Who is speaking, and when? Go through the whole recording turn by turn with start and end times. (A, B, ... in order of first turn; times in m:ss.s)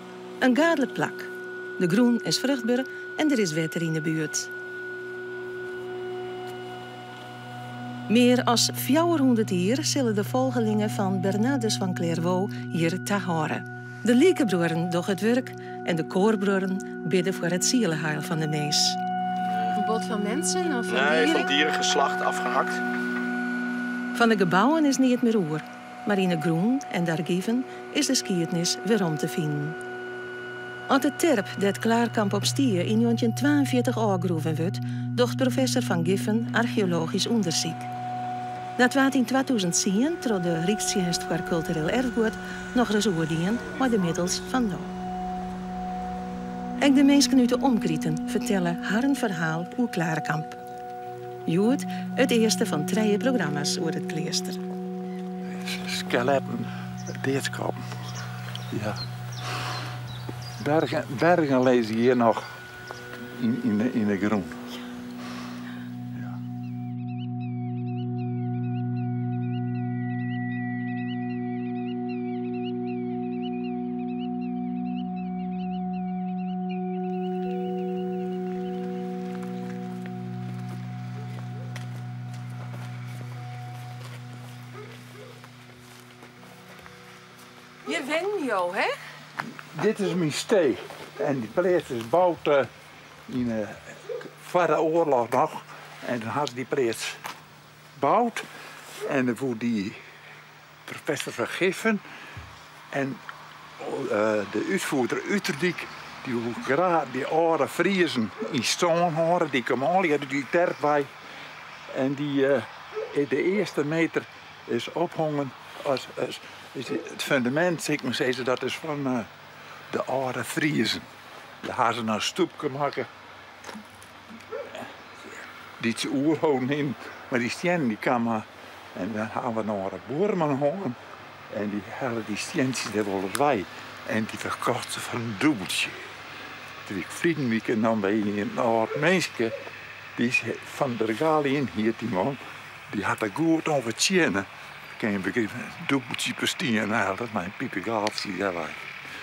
0:00.4-0:04.5 A
0:08.1-0:19.0 A
0:19.7-0:21.5 B
0:20.9-0:22.8 C
0:24.1-0:29.8 A
0:30.9-0:37.9 A
0:38.8-0:44.9 A
0:46.8-0:50.6 A
0:51.5-0:54.6 A
0:55.6-0:56.7 D
0:57.2-0:57.8 D
0:58.7-0:59.0 D
1:00.6-1:02.4 D
1:03.3-1:04.6 D
1:27.8-1:28.9 B
1:29.7-1:32.7 D
1:33.3-1:37.2 D
1:38.0-1:38.4 D
1:39.0-1:40.0 D
1:40.9-1:42.0 D
1:42.9-1:43.2 D
1:43.8-1:51.1 D
1:51.9-1:59.3 D
1:59.9-2:01.1 D
2:01.6-2:03.1 D
2:05.8-2:11.0 D
2:11.5-2:16.0 D
2:16.8-2:19.5 D
2:20.2-2:22.4 D
2:22.9-2:28.9 D